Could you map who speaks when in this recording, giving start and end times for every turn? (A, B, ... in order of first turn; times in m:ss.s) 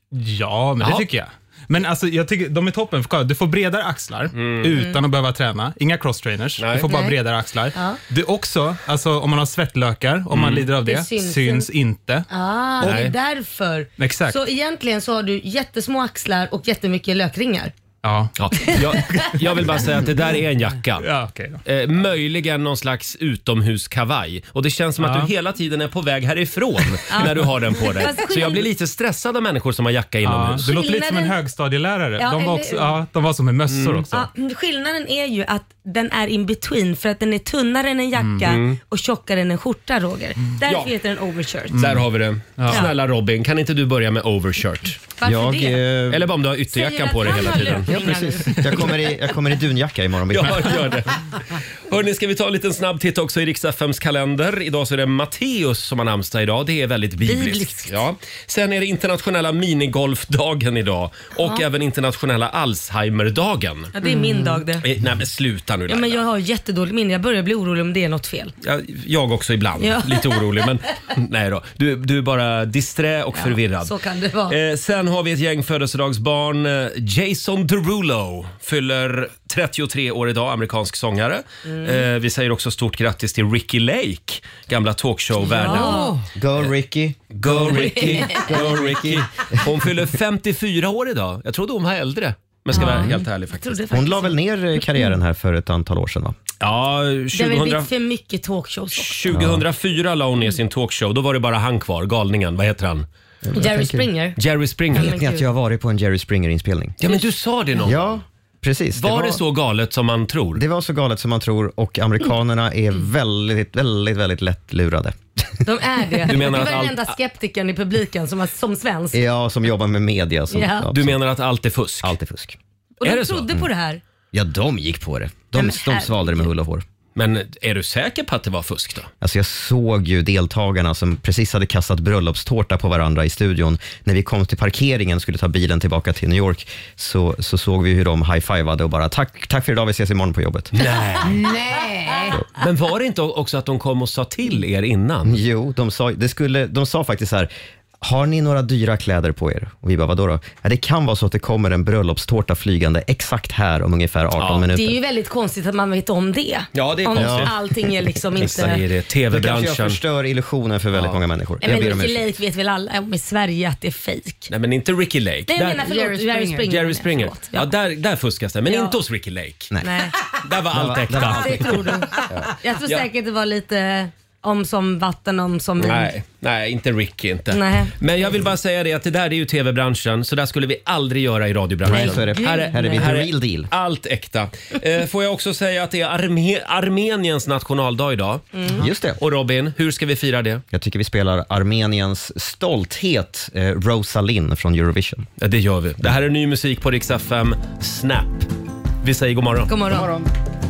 0:00.1-0:12.3 A
0:00.8-0:01.1 B
0:04.4-0:04.7 B
0:06.6-0:06.9 B
0:06.9-0:07.2 C
0:07.7-0:08.0 C
0:10.3-0:10.7 B
0:10.8-0:11.7 C
0:12.3-0:17.7 C
0:12.8-0:13.1 B
0:14.0-0:14.4 A
0:18.0-0:19.4 A
0:18.4-0:21.1 B
0:18.8-0:19.2 C
0:21.0-0:21.6 A
0:21.7-0:30.7 B
0:25.0-0:25.3 A
0:27.1-0:28.7 C
0:30.2-0:34.3 A
0:30.6-0:31.4 C
0:32.2-0:33.0 C
0:33.7-0:34.0 B
0:34.1-0:41.8 C
0:38.2-0:38.5 A
0:38.4-0:38.8 B
0:40.7-0:40.9 B
0:41.7-0:42.9 A
0:41.8-0:45.0 B
0:45.2-0:45.9 C
0:45.2-0:46.3 D
0:46.1-0:48.0 B
0:46.7-0:48.9 C
0:47.9-0:50.8 D
0:50.3-0:51.2 B
0:51.9-1:04.0 B
0:57.2-0:58.0 C
1:04.0-1:04.8 C
1:04.0-1:04.6 E
1:04.8-1:06.2 B
1:05.9-1:08.5 C
1:08.6-1:13.9 B
1:09.8-1:10.7 C
1:13.4-1:14.6 C
1:14.5-1:26.1 B
1:21.6-1:22.0 C
1:25.5-1:26.2 C
1:25.6-1:26.2 E
1:26.4-1:29.7 D
1:27.3-1:33.8 B
1:28.0-1:28.4 C
1:32.8-1:34.4 C
1:32.8-1:33.2 D
1:33.9-1:36.4 D
1:36.6-1:37.9 B
1:37.3-1:39.2 C
1:39.0-1:43.1 B
1:39.3-1:39.6 D
1:43.4-1:44.1 D
1:43.5-1:44.4 C
1:44.4-1:45.2 B
1:44.9-1:47.0 D
1:44.9-1:45.5 C
1:47.0-1:48.2 B
1:47.8-1:49.4 D
1:49.0-1:50.6 B
1:50.5-1:55.2 D
1:55.6-1:59.2 C
1:56.3-1:57.1 B
1:59.1-2:01.2 D
2:00.5-2:00.9 C
2:00.9-2:02.2 B
2:02.0-2:02.6 D
2:03.0-2:04.0 C
2:03.0-2:03.6 B
2:04.3-2:06.8 D
2:05.6-2:06.5 C
2:07.2-2:09.1 B
2:09.2-2:20.8 D
2:20.7-2:21.5 B
2:21.2-2:22.4 E
2:22.5-2:25.4 B
2:25.2-2:27.5 D
2:28.0-2:35.0 D
2:34.4-2:34.7 B
2:34.7-2:38.8 C
2:36.7-2:37.5 B
2:37.1-2:37.6 D
2:38.3-2:42.3 D
2:38.4-2:40.0 B
2:41.6-2:44.5 C
2:44.5-2:45.8 B
2:45.5-2:47.7 C
2:45.7-2:46.7 E
2:46.7-2:49.7 B
2:48.7-2:49.0 C
2:49.7-2:50.0 D
2:49.8-2:50.1 C
2:50.4-2:51.8 B
2:50.7-2:52.5 D
2:51.2-2:56.1 C
2:55.8-3:08.5 B
2:57.5-2:58.0 C
3:01.8-3:03.7 D
3:01.9-3:03.1 C
3:08.6-3:08.8 C
3:08.8-3:09.2 D
3:09.2-3:10.6 B
3:10.7-3:15.3 D
3:15.4-3:18.5 B
3:19.0-3:19.7 B
3:19.7-3:20.1 C
3:19.9-3:20.3 D